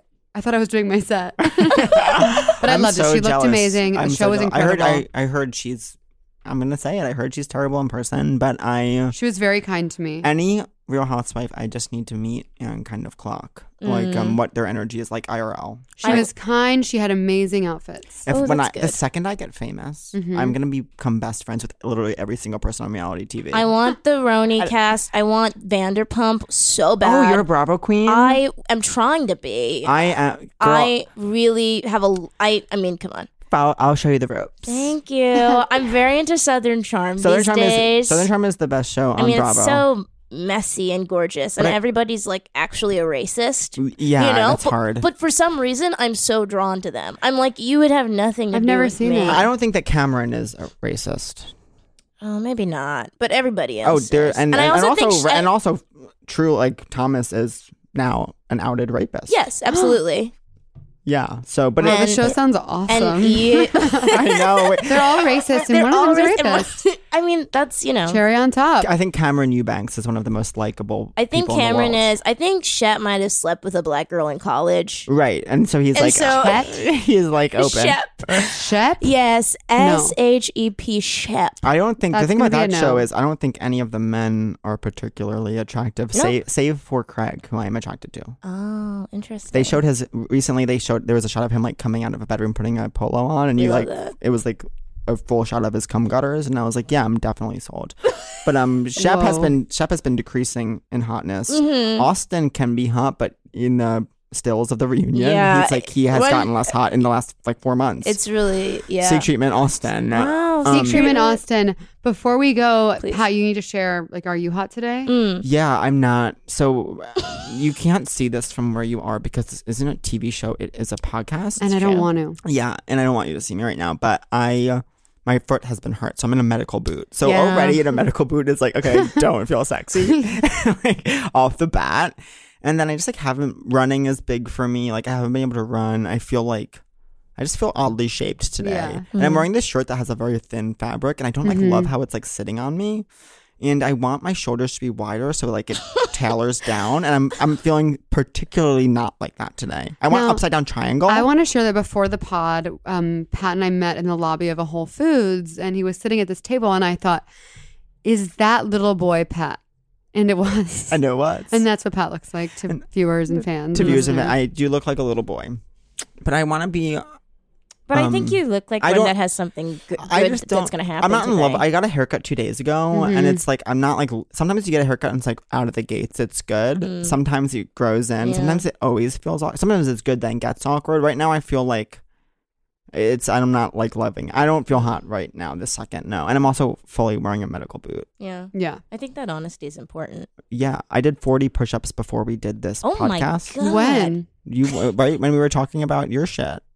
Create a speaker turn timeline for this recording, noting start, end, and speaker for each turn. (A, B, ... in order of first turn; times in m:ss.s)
0:00.3-0:05.0 A
0:01.6-0:09.2 B
0:09.1-0:10.3 A
0:10.2-0:16.2 B
0:13.8-0:14.4 C
0:16.0-0:16.3 C
0:16.0-0:18.3 A
0:18.3-0:23.7 B
0:18.3-0:19.0 C
0:20.1-0:20.6 A
0:23.5-0:27.4 C
0:27.0-0:28.4 B
0:28.0-0:29.9 C
0:29.8-0:30.9 B
0:30.6-0:33.3 C
0:33.5-0:35.0 B
0:34.7-0:38.3 C
0:37.2-0:39.8 B
0:39.2-0:49.4 C
0:43.8-0:45.1 B
0:48.5-0:49.5 A
0:49.2-0:51.5 B
0:52.2-0:55.5 C
0:53.8-0:59.3 B
0:59.3-1:00.3 C
1:01.0-1:02.2 B
1:01.8-1:04.2 A
1:01.8-1:02.3 C
1:02.9-1:04.8 C
1:04.1-1:05.0 B
1:04.8-1:06.8 A
1:05.5-1:08.2 C
1:08.1-1:08.9 A
1:08.8-1:12.1 B
1:11.2-1:15.1 C
1:15.1-1:18.5 B
1:15.9-1:16.6 C
1:16.3-1:16.7 A
1:17.6-1:18.4 C
1:18.4-1:19.1 A
1:19.0-1:21.6 C
1:19.8-1:20.1 A
1:21.6-1:28.3 B
1:22.1-1:23.0 A
1:28.4-1:29.8 C
1:29.5-1:48.2 B
1:33.6-1:34.1 C
1:39.0-1:39.5 A
1:41.5-1:42.0 C
1:45.1-1:46.6 C
1:48.0-1:49.3 C
1:49.0-1:51.1 B
1:50.1-1:51.4 C
1:50.6-1:55.1 A
1:55.0-1:55.4 C
1:55.4-2:16.8 B
2:01.6-2:02.4 A
2:07.2-2:07.8 C
2:17.4-2:23.1 B
2:18.6-2:19.1 A
2:19.1-2:19.4 C
2:21.4-2:21.9 A
2:23.6-2:31.3 B
2:30.1-2:30.4 A
2:31.1-2:37.2 A
2:38.0-2:39.6 A
2:40.1-2:44.4 A
2:40.9-2:41.6 B
2:43.7-2:45.6 B
2:43.8-2:44.1 C
2:46.2-2:47.0 B
2:47.9-2:51.6 C
2:47.9-2:49.1 B
2:50.0-3:02.0 B
2:52.9-2:53.4 A
2:56.8-2:57.2 C
2:58.2-2:58.6 C
3:02.9-3:08.1 B
3:08.2-3:10.3 C
3:08.5-3:08.8 A
3:10.5-3:13.6 B
3:12.8-3:14.2 C
3:13.6-3:14.3 A
3:14.4-3:16.6 B